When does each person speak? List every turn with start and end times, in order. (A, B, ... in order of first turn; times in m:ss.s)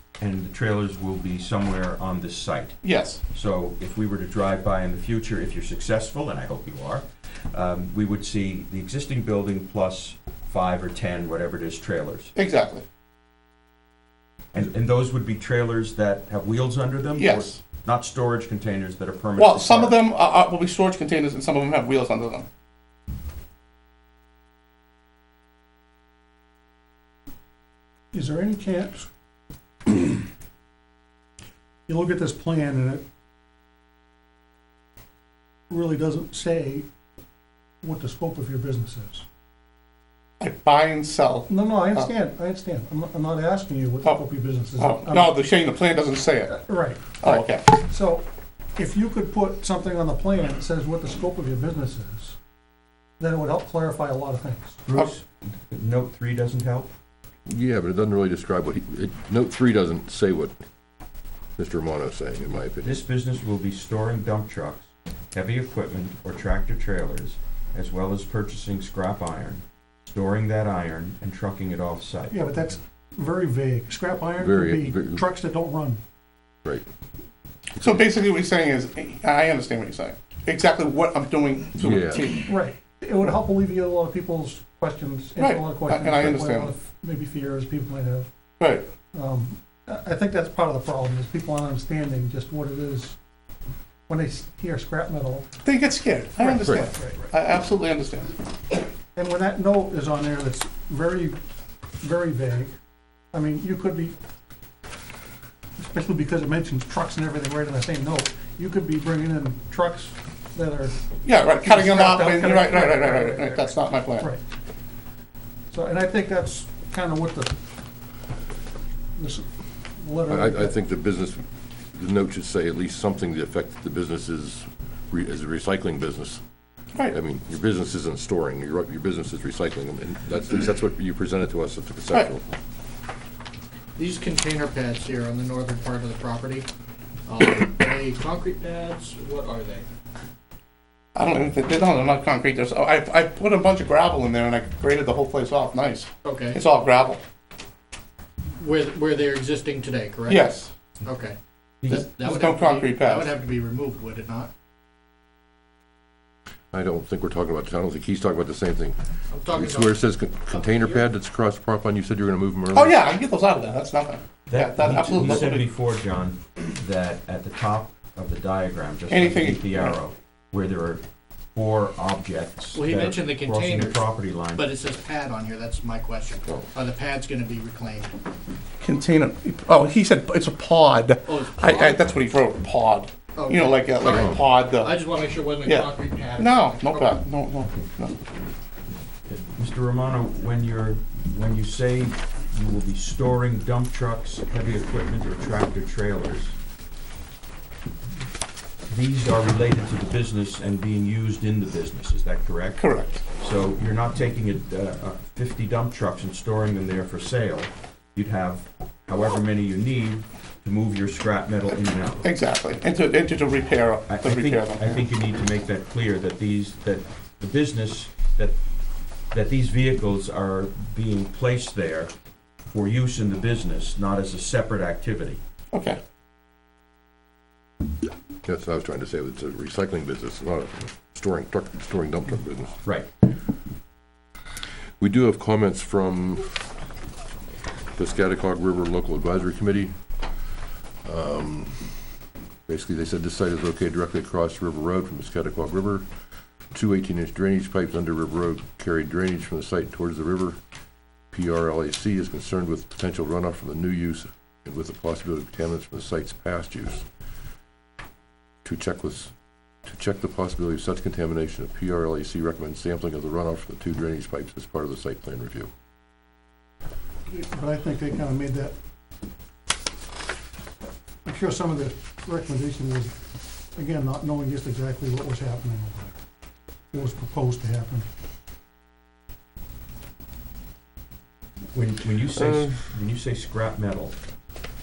0:00.2-0:12.3 A
0:02.8-0:03.2 B
0:12.3-0:12.8 B
0:14.5-0:20.0 A
0:17.2-0:17.6 B
0:19.4-0:22.4 B
0:28.1-0:29.1 C
0:31.9-0:33.0 C
0:35.7-0:36.8 C
0:37.8-0:39.2 C
0:40.4-0:42.1 B
0:41.5-0:45.4 C
0:44.7-0:46.6 B
0:46.5-0:47.2 C
0:47.1-0:47.7 B
0:47.8-0:48.2 C
0:48.8-0:52.4 C
0:53.2-0:54.8 C
0:54.8-0:56.9 A
0:57.4-1:00.6 D
1:01.6-1:03.0 D
1:02.8-1:12.4 A
1:12.3-1:16.0 C
1:14.4-1:15.2 D
1:17.8-1:22.5 B
1:21.8-1:22.3 D
1:22.5-1:28.3 C
1:25.4-1:26.7 B
1:28.6-1:28.9 B
1:29.1-1:33.2 C
1:34.1-1:35.5 C
1:35.6-1:38.4 B
1:36.4-1:37.3 C
1:36.6-1:36.9 D
1:39.2-1:41.4 C
1:42.0-1:42.7 C
1:43.3-1:44.1 C
1:45.8-1:54.4 C
1:51.2-1:54.3 B
1:55.7-1:57.6 C
1:59.2-2:00.8 C
2:00.3-2:01.4 D
2:01.9-2:06.4 D
2:07.1-2:12.4 D
2:14.0-2:16.7 E
2:17.3-2:19.8 E
2:21.1-2:27.2 B
2:26.2-2:26.6 E
2:28.6-2:31.4 E
2:30.3-2:30.7 B
2:31.9-2:33.4 B
2:31.9-2:34.5 E
2:36.7-2:43.0 D
2:39.3-2:41.0 E
2:42.7-2:45.6 B
2:44.5-2:51.0 A
2:49.1-2:50.0 B
2:51.5-2:54.7 A
2:52.7-2:58.1 E
2:58.8-3:04.9 B
3:01.2-3:02.2 E
3:03.3-3:07.2 E
3:04.0-3:04.4 D
3:05.6-3:08.2 B
3:09.3-3:16.6 A
3:18.9-3:32.2 A
3:22.8-3:23.2 B
3:32.2-3:35.0 B
3:34.1-3:38.6 A
3:39.3-3:42.1 A
3:42.7-3:45.4 A
3:45.7-3:46.0 B
3:48.4-3:52.8 D
3:55.0-3:56.6 D
3:58.0-4:00.0 D
4:01.0-4:01.9 D
4:02.7-4:06.0 D
4:06.7-4:10.6 D
4:11.3-4:17.0 D
4:18.6-4:19.3 D
4:19.8-4:25.7 D
4:27.3-4:28.7 C
4:31.2-4:33.1 C
4:33.8-4:36.1 C
4:36.9-4:38.0 C
4:41.7-4:44.1 A